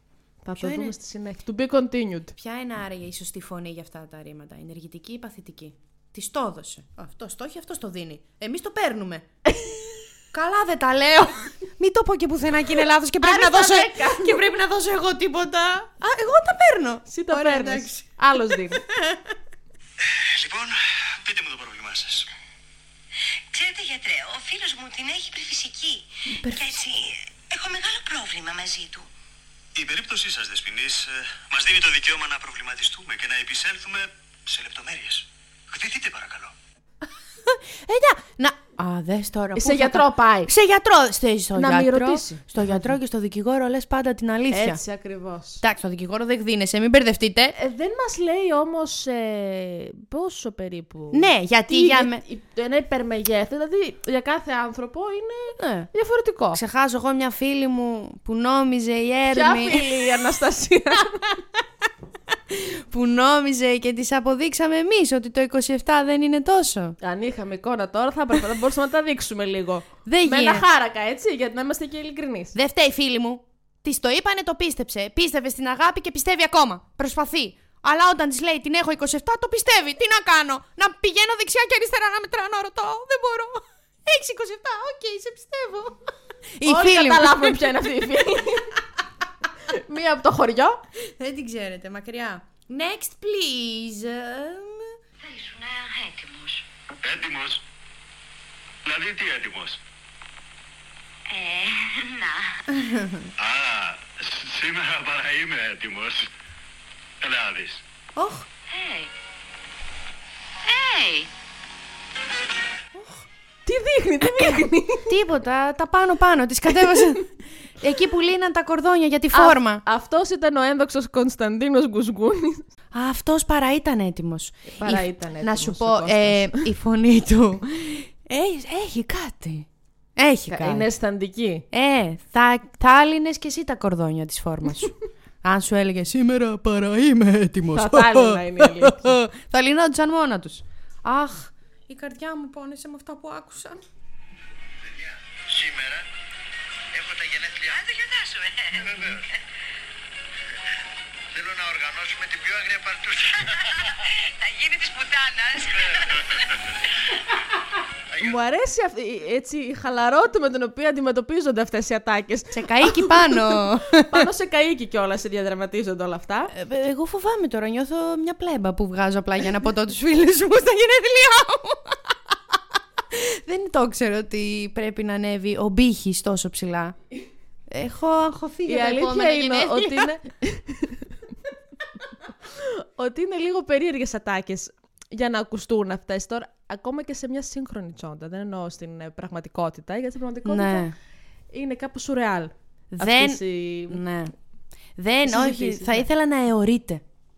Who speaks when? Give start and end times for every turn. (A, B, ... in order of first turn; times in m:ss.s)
0:00.4-0:02.3 A
0:00.6-0:00.9 B
0:02.4-0:09.3 B
0:09.5-0:09.8 A
0:10.3-0:19.4 B
0:13.2-0:14.4 A
0:17.1-0:18.8 A
0:20.1-0:22.3 C
0:23.5-0:29.1 D
0:26.4-0:26.6 B
0:29.7-0:36.5 C
0:37.4-0:44.8 B
0:39.6-0:40.5 A
0:41.6-0:42.4 A
0:44.5-0:45.6 A
0:45.6-0:47.5 B
0:47.6-0:56.6 A
0:51.1-0:52.2 B
0:55.6-0:55.9 B
0:56.5-0:59.8 B
0:59.3-1:01.3 A
1:02.5-1:07.0 B
1:07.0-1:12.5 A
1:10.0-1:10.6 B
1:12.5-1:27.7 B
1:26.6-1:28.8 A
1:29.6-1:30.8 A
1:31.0-1:35.0 B
1:35.2-1:36.6 D
1:41.3-1:42.6 D
1:42.7-1:43.3 B
1:48.2-1:48.5 B
1:48.7-1:49.1 D
1:50.6-1:51.3 D
1:52.9-1:53.2 B
1:53.6-1:55.1 A
1:55.1-1:59.8 B
1:59.3-2:02.6 A
2:02.9-2:10.9 B
2:04.7-2:06.6 A
2:10.5-2:11.6 A
2:11.7-2:23.8 B
2:17.7-2:19.2 A
2:27.6-2:29.2 D
2:33.9-2:36.4 D
2:38.2-2:46.5 A
2:42.5-2:44.3 B
2:46.5-2:52.5 B
2:53.1-2:57.0 B
2:57.7-3:00.1 B
2:58.7-3:01.0 A
3:02.5-3:10.9 A
3:10.4-3:10.9 B
3:11.5-3:14.0 A
3:12.9-3:14.3 B
3:15.0-3:17.0 B
3:15.2-3:16.1 A